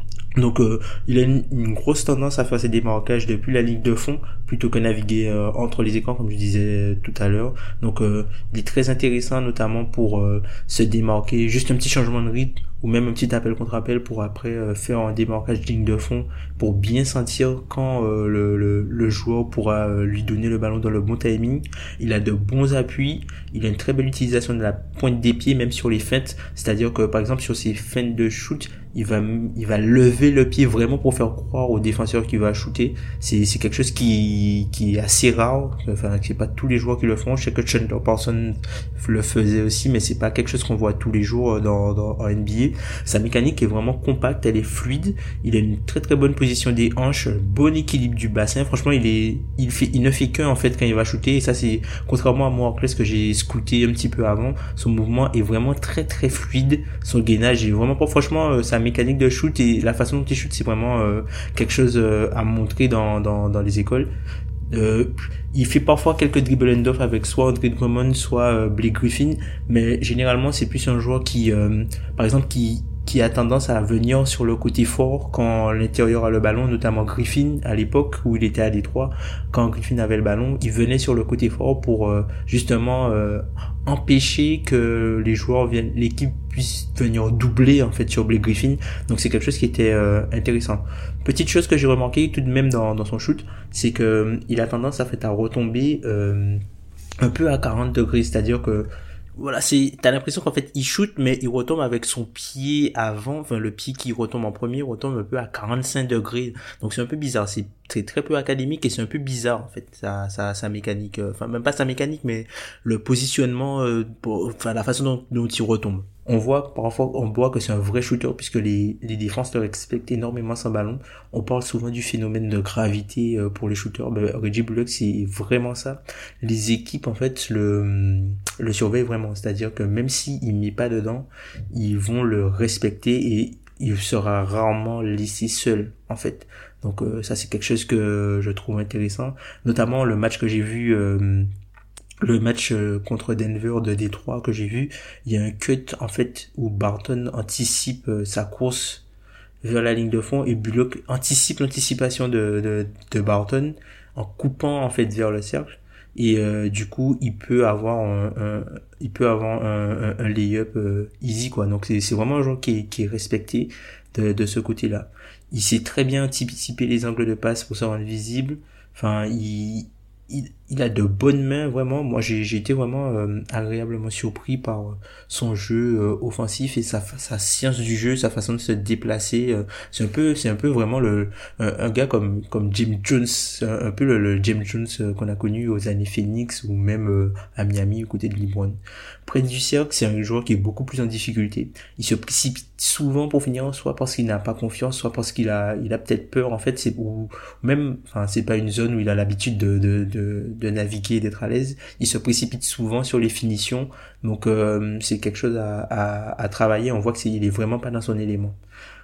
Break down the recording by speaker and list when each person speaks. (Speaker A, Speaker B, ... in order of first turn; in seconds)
Speaker A: 0.3-64.1, 64.7-96.6, 97.2-141.5, 142.2-149.0, 149.6-208.6